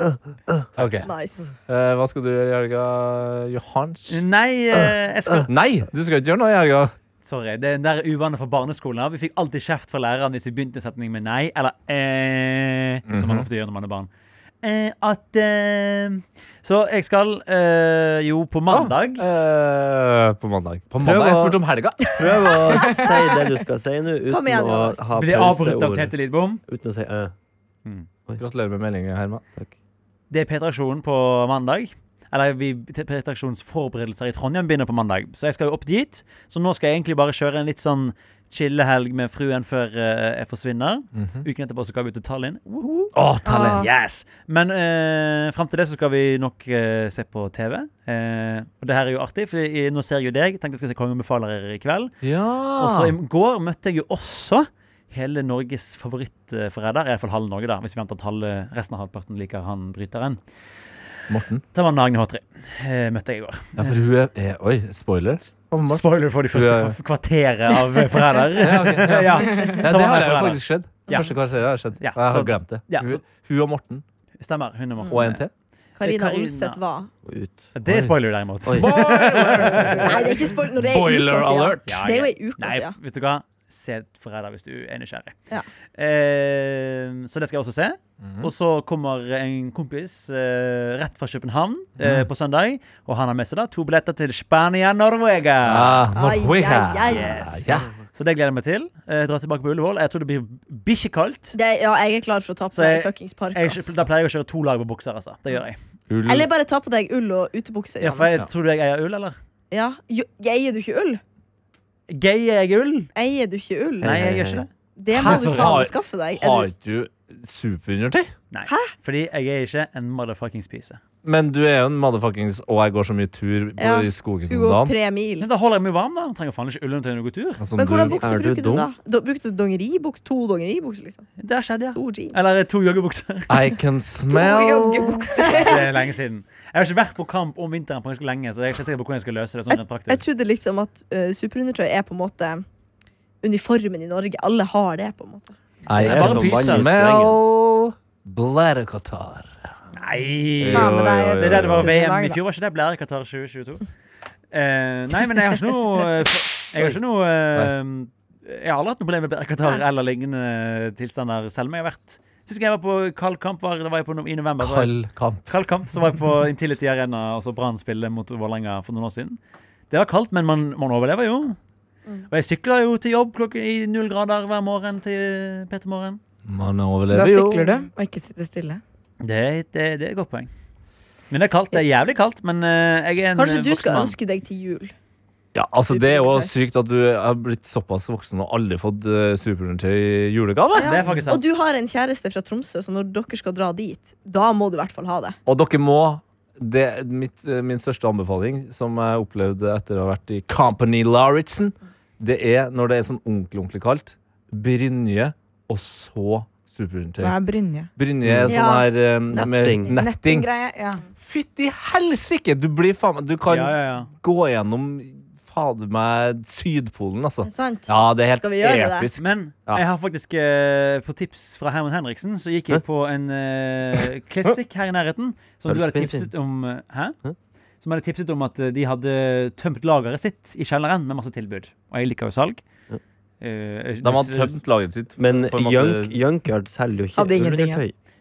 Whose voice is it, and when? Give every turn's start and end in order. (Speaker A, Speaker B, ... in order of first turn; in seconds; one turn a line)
Speaker A: 0.8-1.1
Speaker B: 0.8-1.1
Speaker C: 1.0-1.5
Speaker B: 1.7-4.2
Speaker A: 4.1-5.5
Speaker B: 5.5-6.9
Speaker A: 7.2-14.1
Speaker B: 13.1-13.5
Speaker A: 14.6-19.2
Speaker B: 18.7-22.6
Speaker D: 21.0-26.1
Speaker C: 24.3-25.1
Speaker A: 25.2-26.6
Speaker D: 26.7-27.3
Speaker B: 28.4-29.4
Speaker A: 30.3-43.1
Speaker B: 41.1-41.5
Speaker B: 43.1-43.9
Speaker C: 43.5-43.9
Speaker A: 43.8-52.2
Speaker B: 52.2-53.1
Speaker A: 52.8-60.4
Speaker B: 61.3-61.6
Speaker A: 61.7-64.0
Speaker B: 63.8-67.0
Speaker A: 65.9-71.3
Speaker B: 68.6-74.0
Speaker A: 72.0-73.2
Speaker A: 74.4-75.4
Speaker C: 75.0-75.3
Speaker B: 75.1-75.5
Speaker C: 76.0-77.1
Speaker A: 76.0-76.8
Speaker D: 77.2-77.7
Speaker A: 77.8-80.3
Speaker B: 77.9-78.2
Speaker D: 78.7-79.0
Speaker B: 78.7-82.0
Speaker C: 80.0-82.9
Speaker A: 81.9-85.4
Speaker A: 86.0-96.1
Speaker B: 88.2-88.5
Speaker B: 92.0-92.3
Speaker B: 95.6-97.9
Speaker C: 96.1-97.5
Speaker A: 97.1-97.5
Speaker A: 98.1-101.6
Speaker C: 101.5-103.9
Speaker A: 102.7-105.8
Speaker B: 106.1-106.5
Speaker C: 106.3-108.5
Speaker A: 108.0-109.3
Speaker C: 109.7-111.2
Speaker A: 112.1-113.1
Speaker C: 113.2-114.2
Speaker D: 114.0-114.7
Speaker A: 114.0-115.8
Speaker C: 115.0-116.7
Speaker B: 115.1-118.3
Speaker A: 118.5-121.0
Speaker B: 121.2-124.9
Speaker C: 123.8-125.5
Speaker A: 125.4-127.7
Speaker B: 127.6-128.2
Speaker C: 127.8-131.3
Speaker D: 128.2-128.9
Speaker A: 131.4-133.6
Speaker C: 131.9-132.4
Speaker B: 133.5-135.2
Speaker E: 134.3-135.8
Speaker C: 135.4-135.9
Speaker A: 135.5-140.2
Speaker C: 139.7-142.7
Speaker C: 143.4-145.6
Speaker A: 145.9-146.9
Speaker B: 145.9-149.7
Speaker D: 146.0-147.4
Speaker A: 149.9-153.8
Speaker B: 150.6-151.9
Speaker E: 150.7-152.4
Speaker A: 154.5-164.9
Speaker B: 164.6-165.5
Speaker A: 165.5-169.4
Speaker A: 169.9-171.6
Speaker A: 172.3-176.2
Speaker B: 176.5-177.8
Speaker E: 177.1-178.8
Speaker A: 179.2-180.5
Speaker A: 181.3-184.2
Speaker C: 183.3-184.9
Speaker B: 185.5-191.0
Speaker C: 185.9-186.5
Speaker C: 190.7-195.4
Speaker A: 190.8-191.4
Speaker B: 195.5-207.4
Speaker E: 207.2-207.9
Speaker B: 208.0-210.5
Speaker D: 208.2-208.6
Speaker C: 208.5-209.5
Speaker D: 209.3-209.9
Speaker E: 209.9-211.0
Speaker B: 211.2-219.8
Speaker A: 213.5-214.1
Speaker C: 217.4-219.1
Speaker A: 219.2-227.2
Speaker D: 225.7-226.3
Speaker A: 227.8-232.6
Speaker A: 233.4-234.6
Speaker B: 234.0-236.1
Speaker D: 235.2-237.9
Speaker E: 237.2-237.8